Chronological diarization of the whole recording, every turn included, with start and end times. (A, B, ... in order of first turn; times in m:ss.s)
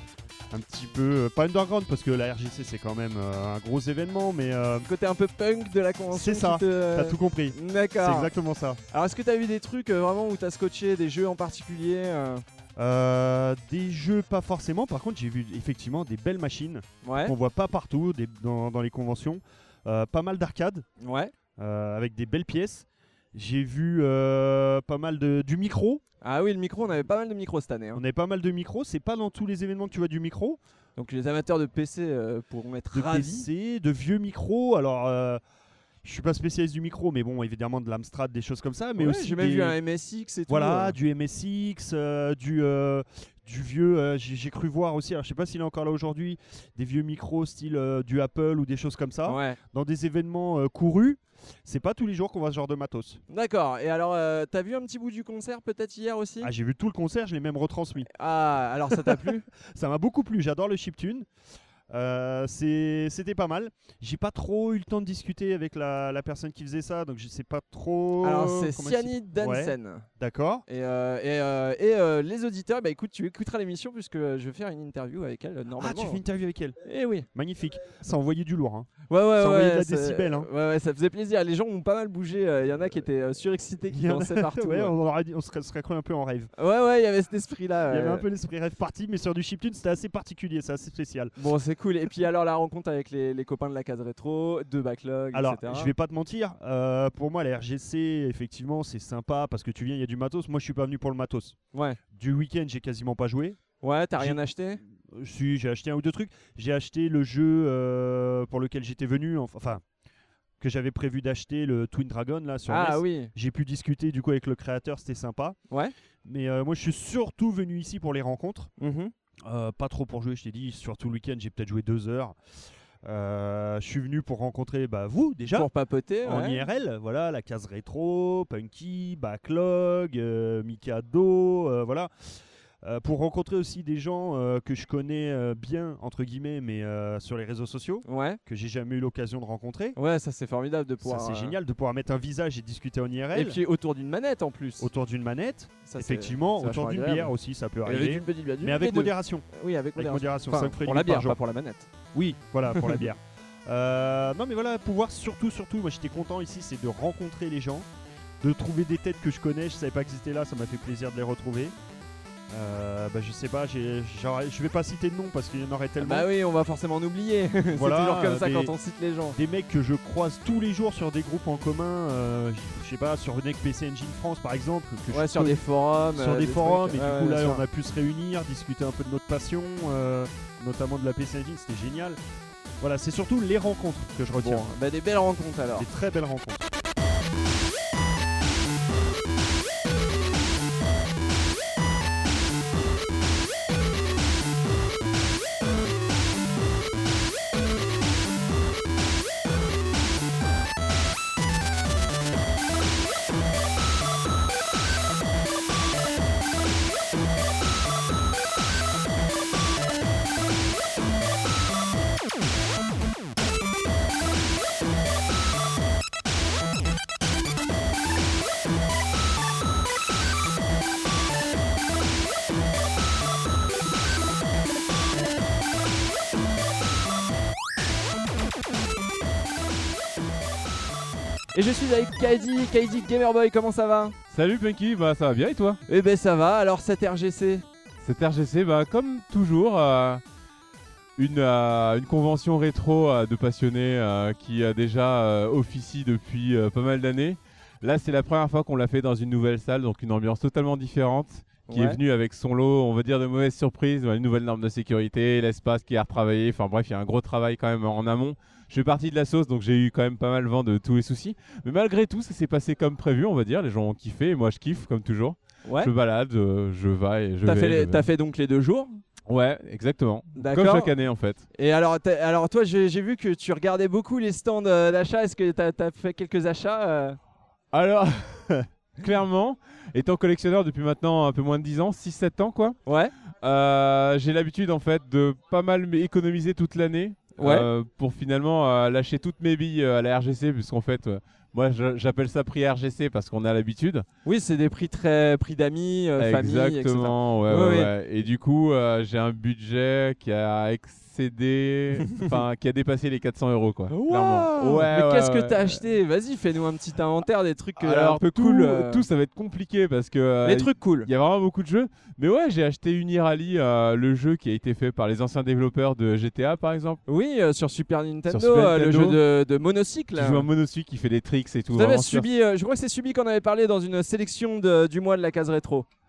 0:00.5-0:04.9 A
0:04.8-0:08.3 B
0:06.1-0:08.8 A
0:08.9-0:12.4 B
0:12.8-0:20.9 A
0:17.0-0:17.4 B
0:21.0-0:21.3 B
0:21.6-0:26.0 A
0:26.2-0:28.0 B
0:27.9-0:30.6 A
0:31.0-0:33.5 B
0:32.9-0:35.4 A
0:36.0-0:39.8 A
0:39.0-0:41.0 B
0:40.5-0:53.2 A
0:49.2-0:49.6 B
0:53.3-0:56.5 B
0:56.4-0:58.1 A
0:58.0-0:59.5 B
0:58.9-1:01.3 A
1:01.9-1:10.6 A
1:08.2-1:10.1 B
1:10.7-1:16.2 B
1:15.8-1:16.8 A
1:16.8-1:17.3 B
1:17.3-1:20.5 A
1:19.1-1:24.9 B
1:23.9-1:26.5 A
1:26.6-1:28.2 B
1:27.9-1:31.3 A
1:31.4-1:35.9 B
1:35.3-1:41.6 A
1:41.7-1:42.0 B
1:42.1-1:43.6 A
1:43.8-1:44.8 B
1:44.2-1:49.8 A
1:50.6-1:55.6 A
1:52.7-1:53.3 B
1:56.2-1:58.7 A
1:58.8-1:59.1 B
1:59.4-2:02.4 A
2:03.0-2:05.7 A
2:05.5-2:06.7 B
2:06.2-2:12.1 A
2:12.8-2:20.0 A
2:18.0-2:18.4 B
2:20.0-2:21.6 B
2:21.0-2:23.6 A
2:23.3-2:24.9 B
2:24.8-2:31.4 A
2:25.9-2:27.3 B
2:27.8-2:31.9 B
2:32.1-2:37.9 A
2:32.7-2:33.0 B
2:38.4-2:41.8 A
2:42.5-2:46.3 A
2:46.0-2:49.4 B
2:47.7-2:48.7 A
2:49.4-2:55.6 A
2:55.1-2:57.6 B
2:56.1-3:02.2 A
3:02.8-3:04.7 A
3:04.3-3:05.9 B
3:05.8-3:06.7 A
3:51.5-3:54.2 B
3:54.3-3:55.8 C
3:55.9-3:57.6 B
3:58.0-4:00.2 C
4:01.2-4:28.1 C
4:11.7-4:12.0 B
4:25.6-4:25.9 B
4:27.4-4:29.0 B
4:29.3-4:31.4 C
4:30.4-4:30.9 B
4:31.5-4:37.2 B
4:37.7-4:42.8 C
4:42.9-4:43.1 B
4:43.4-4:54.1 C
4:47.4-4:47.7 B
4:54.2-4:57.9 B
4:56.2-5:05.8 C
5:03.9-5:09.0 B
5:07.8-5:17.0 C
5:10.4-5:11.1 B
5:17.1-5:20.5 B
5:18.3-5:19.2 C
5:20.2-5:22.3 C
5:21.7-5:25.9 B